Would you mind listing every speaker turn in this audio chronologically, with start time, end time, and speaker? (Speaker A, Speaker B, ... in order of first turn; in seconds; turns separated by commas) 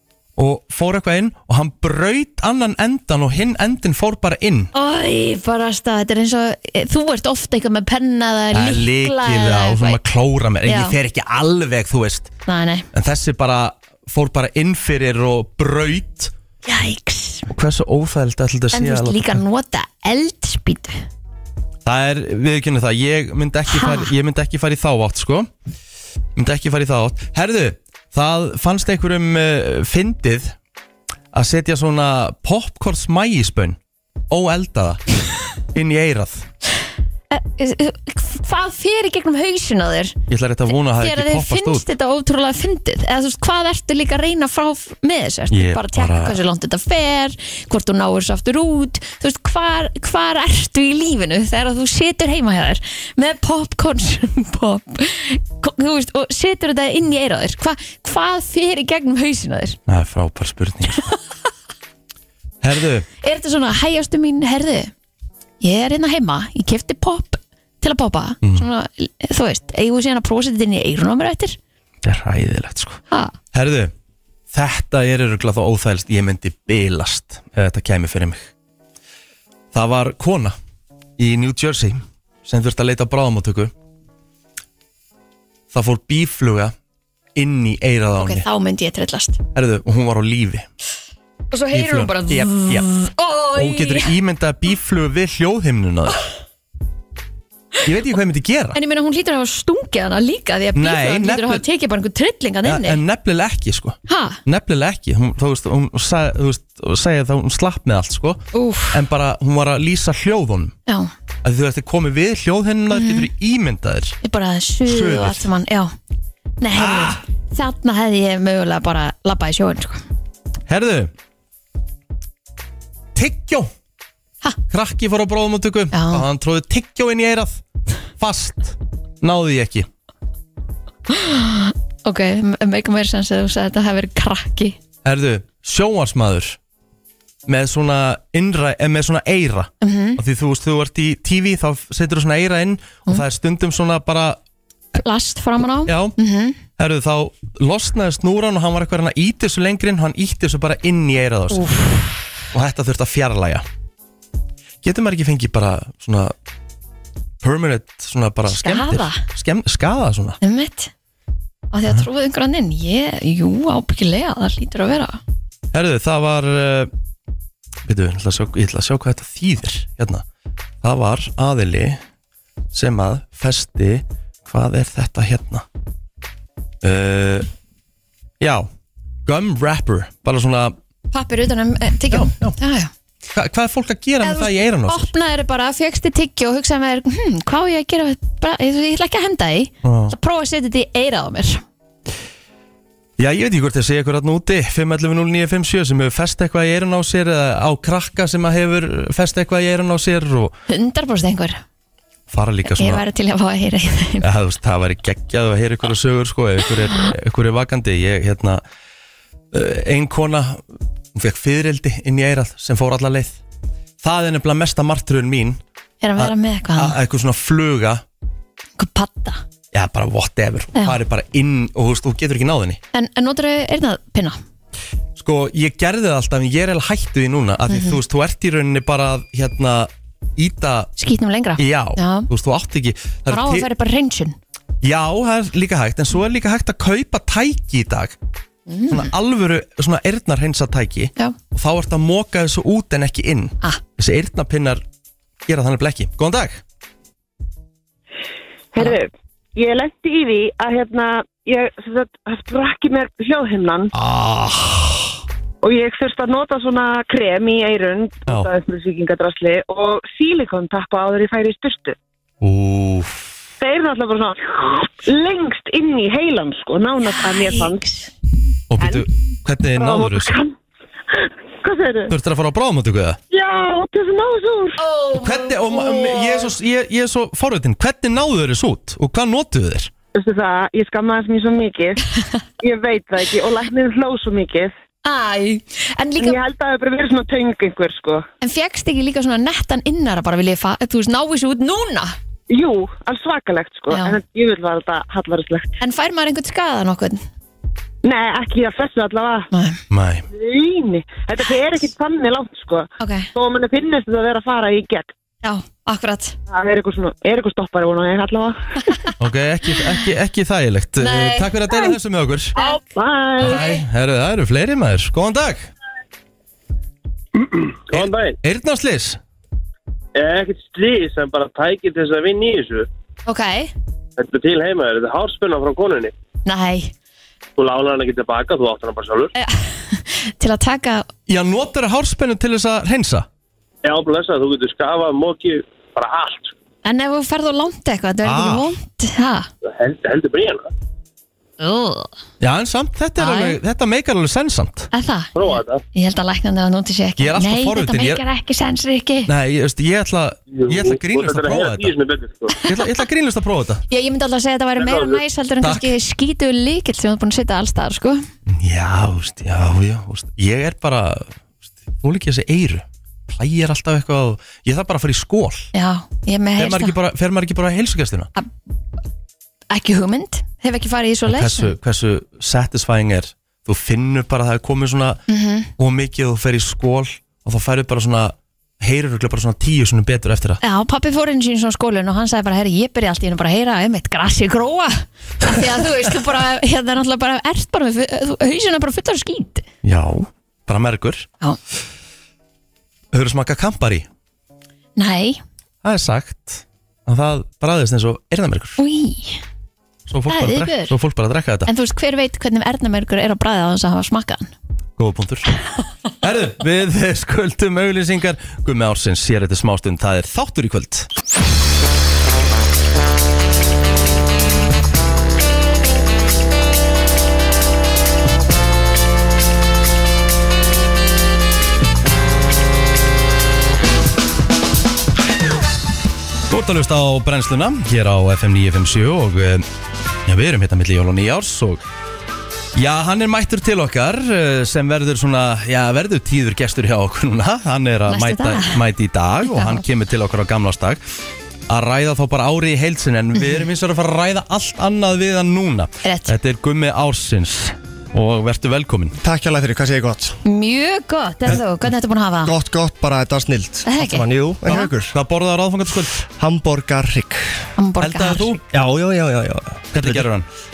Speaker A: 0.4-4.7, Speaker B: 4.7-10.0, Speaker A: 8.5-12.3, Speaker B: 10.6-11.0, Speaker B: 12.5-12.9, Speaker A: 12.9-16.3, Speaker B: 16.6-17.5, Speaker A: 17.5-19.4, Speaker B: 18.7-21.0, Speaker A: 21.9-25.5, Speaker B: 23.7-24.1, Speaker A: 26.4-30.6, Speaker A: 31.3-33.8, Speaker A: 34.3-35.1, Speaker A: 35.7-36.5, Speaker B: 37.3-40.1, Speaker A: 40.3-41.9, Speaker B: 40.7-59.8, Speaker A: 45.5-46.4, Speaker A: 59.9-61.0, Speaker A: 62.6-63.1, Speaker B: 63.2-64.9, Speaker B: 65.6-71.6, Speaker A: 72.0-73.0, Speaker A: 73.5-73.9, Speaker A: 74.5-78.5, Speaker A: 79.7-80.6, Speaker A: 81.2-83.7, Speaker A: 85.7-86.7, Speaker A: 87.3-88.4, Speaker B: 88.2-89.4, Speaker A: 89.5-90.7, Speaker B: 91.5-94.1, Speaker A: 91.7-92.9, Speaker A: 93.5-96.2, Speaker A: 97.8-98.8, Speaker B: 98.7-103.0, Speaker A: 100.8-101.6, Speaker A: 102.6-110.7, Speaker B: 104.1-104.4, Speaker B: 108.5-109.0, Speaker A: 111.4-114.2, Speaker B: 112.9-113.3, Speaker B: 114.2-115.9, Speaker A: 114.9-115.4, Speaker B: 116.6-120.0, Speaker A: 116.7-117.2, Speaker A: 120.7-121.1, Speaker A: 123.1-123.7, Speaker A: 124.7-127.6, Speaker B: 125.9-126.3, Speaker A: 128.2-129.9, Speaker B: 131.1-134.8, Speaker A: 135.1-136.6, Speaker A: 137.4-144.4, Speaker B: 139.8-140.2, Speaker B: 144.9-146.6, Speaker A: 145.8-146.1, Speaker A: 146.8-151.9, Speaker B: 151.5-152.2, Speaker A: 152.5-153.7, Speaker A: 154.8-156.3, Speaker A: 157.4-160.4, Speaker B: 158.5-159.2, Speaker B: 160.4-160.9, Speaker B: 161.7-165.2, Speaker A: 165.7-166.9, Speaker A: 167.8-170.2, Speaker A: 170.8-172.0, Speaker A: 172.7-175.7, Speaker A: 176.8-177.5, Speaker A: 178.4-178.7, Speaker A: 179.3-180.8, Speaker B: 181.1-182.9, Speaker A: 182.1-182.6, Speaker A: 183.3-185.1, Speaker B: 184.2-191.6, Speaker A: 189.8-190.1, Speaker A: 193.2-200.5, Speaker B: 200.7-201.6, Speaker A: 202.3-203.0, Speaker B: 202.6-204.3, Speaker A: 204.2-208.6, Speaker A: 209.5-213.4, Speaker A: 214.0-215.6, Speaker B: 216.0-217.0, Speaker A: 216.2-218.0, Speaker B: 218.8-219.4, Speaker A: 219.7-222.8, Speaker B: 222.9-224.4, Speaker A: 225.2-230.9, Speaker B: 227.7-228.0, Speaker B: 231.0-232.3, Speaker A: 231.6-233.7, Speaker B: 233.3-234.4, Speaker A: 234.8-238.2, Speaker B: 238.7-239.1, Speaker A: 238.9-244.8, Speaker A: 245.4-246.6, Speaker C: 248.7-253.9, Speaker A: 253.9-255.1, Speaker C: 255.6-261.9, Speaker A: 262.4-263.3, Speaker C: 263.6-268.1, Speaker B: 267.1-267.7, Speaker A: 268.7-270.4, Speaker C: 268.8-269.1, Speaker C: 269.8-270.5, Speaker C: 271.1-272.1, Speaker A: 272.1-273.2, Speaker C: 273.3-274.8, Speaker B: 274.8-276.5, Speaker A: 275.2-279.9, Speaker C: 280.1-282.1, Speaker C: 282.6-284.7, Speaker B: 285.1-286.4, Speaker C: 286.2-288.3, Speaker B: 288.4-292.1, Speaker C: 292.5-295.7, Speaker B: 293.9-294.2, Speaker B: 295.8-297.2, Speaker C: 298.0-299.5, Speaker B: 299.5-299.8, Speaker A: 299.9-300.3, Speaker C: 300.3-305.1, Speaker B: 303.0-303.3, Speaker B: 305.4-306.4, Speaker C: 306.5-309.0, Speaker A: 309.2-312.6, Speaker B: 311.0-311.9, Speaker C: 312.6-313.8, Speaker A: 313.4-315.7, Speaker D: 317.5-318.4, Speaker A: 317.9-319.2, Speaker D: 320.1-322.9, Speaker B: 323.3-323.7, Speaker D: 324.2-326.1, Speaker B: 326.4-326.9, Speaker D: 327.6-329.3, Speaker B: 329.4-331.1, Speaker A: 331.3-333.3, Speaker D: 333.8-336.5, Speaker B: 336.9-339.5, Speaker E: 338.3-338.6, Speaker D: 339.7-340.7, Speaker B: 341.6-342.1, Speaker A: 342.4-344.9, Speaker B: 343.2-343.6, Speaker B: 344.9-349.3, Speaker D: 345.4-345.8, Speaker A: 347.2-348.2, Speaker A: 349.3-351.9, Speaker D: 350.6-352.6, Speaker B: 352.5-352.8, Speaker A: 352.6-353.8, Speaker B: 353.9-358.3, Speaker D: 354.8-355.2, Speaker A: 355.6-355.9, Speaker A: 358.5-361.4, Speaker A: 362.0-365.7, Speaker B: 365.7-366.9, Speaker A: 366.6-368.3, Speaker B: 369.7-371.7, Speaker A: 371.3-375.2, Speaker B: 375.3-375.7, Speaker A: 375.8-380.6, Speaker B: 380.6-389.7, Speaker A: 389.8-391.3, Speaker A: 393.1-394.1, Speaker B: 395.0-395.4, Speaker A: 395.8-398.8, Speaker B: 398.8-399.4, Speaker A: 400.1-401.7, Speaker B: 400.3-400.9, Speaker B: 401.7-404.5, Speaker A: 405.0-405.5, Speaker A: 406.2-411.1, Speaker A: 426.5-429.7, Speaker A: 430.3-431.8, Speaker A: 432.7-441.0, Speaker B: 438.1-438.8, Speaker B: 439.4-439.8, Speaker A: 441.7-449.2, Speaker B: 446.0-446.4, Speaker E: 449.2-450.4, Speaker B: 450.4-452.5, Speaker E: 452.4-455.1, Speaker B: 453.9-454.9, Speaker A: 454.7-456.2, Speaker E: 456.3-457.6, Speaker B: 457.8-458.6, Speaker A: 458.0-458.6, Speaker E: 458.7-460.3, Speaker A: 459.9-460.5